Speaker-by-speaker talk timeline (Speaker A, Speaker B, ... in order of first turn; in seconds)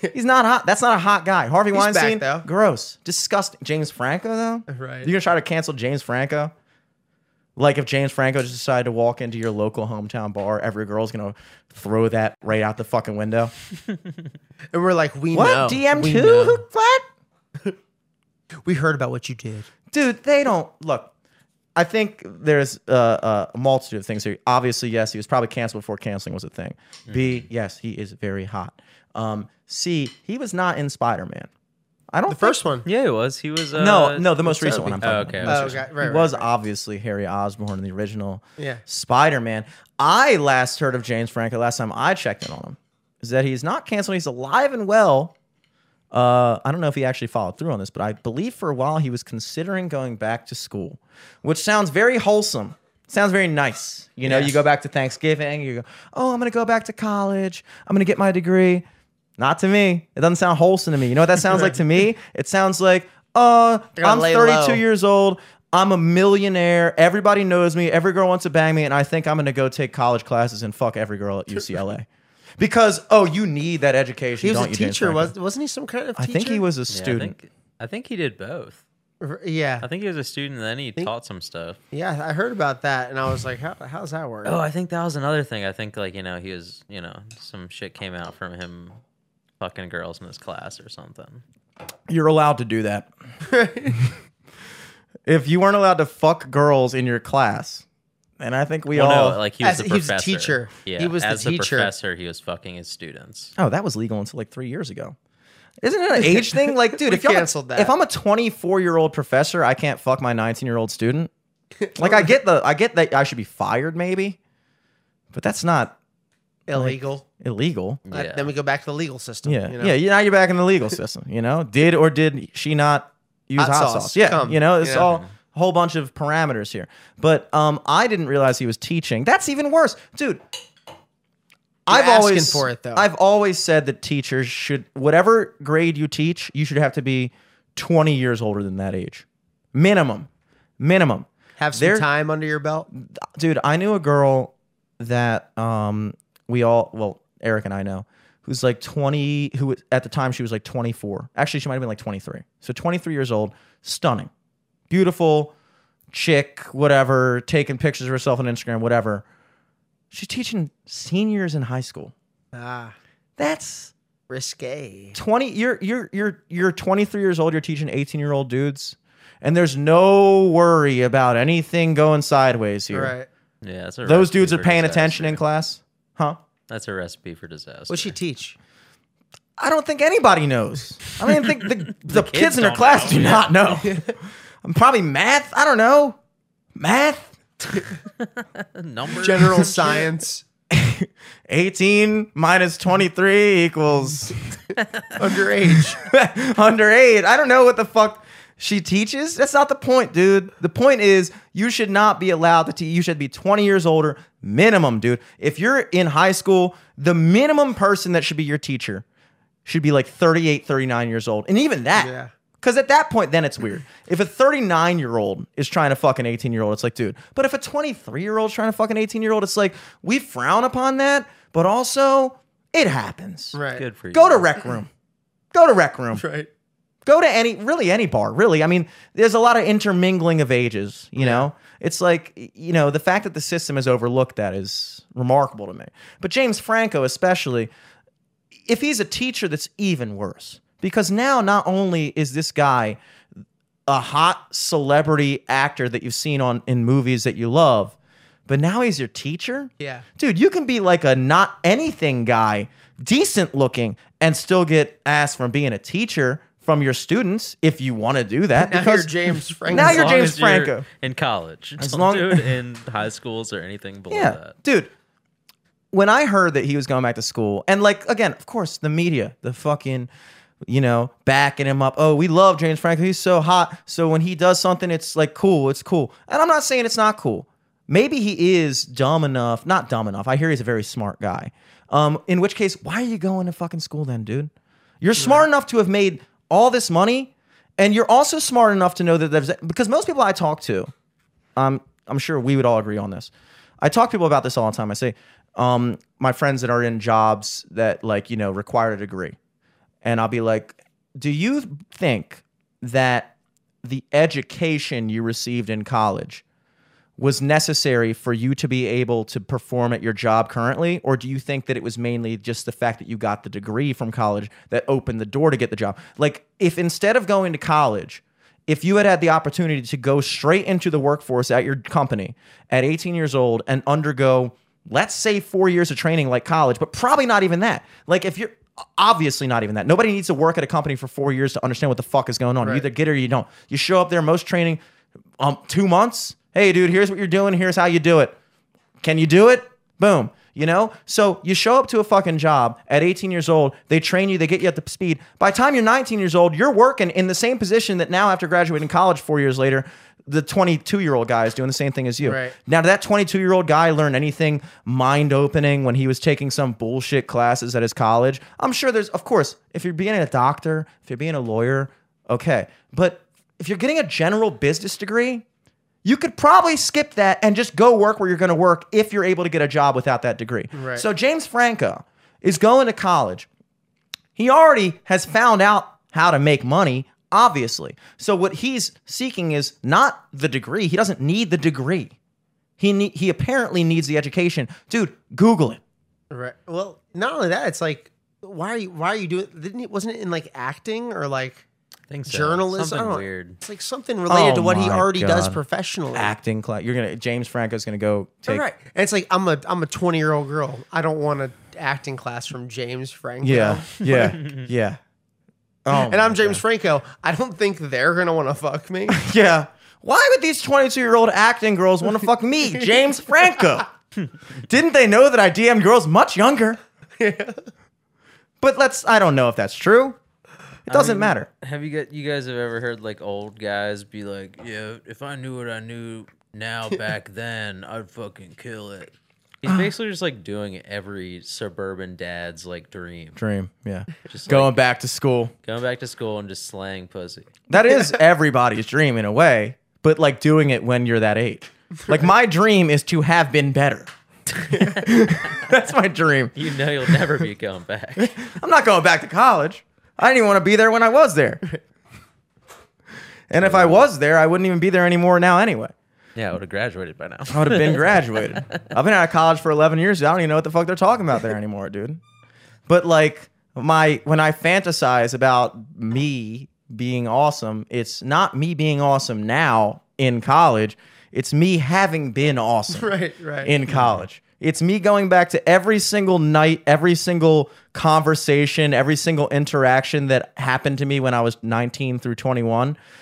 Speaker A: 0.1-6.5, 7.6-13.5, 15.3-17.1, 19.9-21.1, 21.8-31.5, 32.1-32.6, 33.8-45.3, 46.1-58.9, 59.4-72.1, 72.6-75.3, 76.2-77.4, 92.1-93.1, 95.3-97.8, 98.4-99.4, 103.6-105.2, 105.8-111.3, 112.0-114.4, 115.3-116.0, 116.7-118.0, 119.5-130.4, 131.9-140.3, 140.8-142.1, 143.0-154.3, 154.9-155.5, 156.1-159.2, 160.1-162.1, 163.4-163.9, 165.2-173.1, 174.1-176.4, 179.6-184.1, 184.6-186.2, 186.8-187.8, 190.7-194.4, 196.0-209.1, 209.7-223.6, 224.1-224.9, 225.5-226.2, 227.1-237.7, 238.7-243.0, 243.9-248.0, 248.5-259.1, 259.7-260.9, 261.8-262.5, 264.1-264.9, 265.9-270.1, 270.7-290.9, 291.6-299.4, 300.0-306.4, 307.2-334.8, 335.4-338.4, 339.0-365.4, 366.0-373.5, 374.4-382.1, 382.8-385.8, 394.3-395.6, 396.1-398.6, 403.4-405.0, 405.9-406.6, 409.1-413.9, 414.7-416.8, 418.6-420.2, 420.9-421.5, 433.4-435.5, 437.7-446.6, 448.2-451.7, 453.5-455.9, 457.5-462.2, 462.9-473.1, 473.6-483.0
Speaker B: 1.7-2.5, 4.7-5.1, 14.7-16.6, 18.6-19.7, 32.3-32.9, 34.4-36.5, 54.2-54.5, 61.5-61.8, 64.0-64.8, 74.4-76.7, 79.2-79.9, 81.9-84.6, 93.5-94.0, 99.6-101.9, 106.3-107.9, 111.8-112.3, 116.7-117.2, 118.1-120.0, 123.6-125.1, 131.9-133.1, 141.6-142.9, 162.5-163.0, 164.3-165.2, 172.9-173.3, 177.9-178.6, 183.8-184.2, 189.1-190.4, 195.2-196.0, 212.0-212.3, 223.5-223.8, 226.1-226.5, 231.2-231.5, 249.8-250.1, 258.6-260.3, 285.2-285.4, 352.2-352.6, 370.7-371.1, 386.3-391.6, 392.3-396.3, 398.5-403.9, 405.9-409.2, 417.2-417.7, 472.9-473.8
Speaker C: 27.1-27.5, 32.9-34.4, 35.0-35.9, 76.9-78.8, 79.8-81.8, 84.5-89.0, 89.6-91.4, 98.9-103.5, 118.1-118.5, 124.9-125.3, 173.6-175.4, 176.7-178.2, 181.5-183.8, 188.2-190.1, 194.8-195.2, 223.8-224.6, 259.7-264.6, 392.1-393.6, 404.0-404.7, 420.9-433.4, 434.3-434.8, 435.6-437.5, 446.6-448.4, 453.6-454.1, 456.4-458.6, 473.9-474.2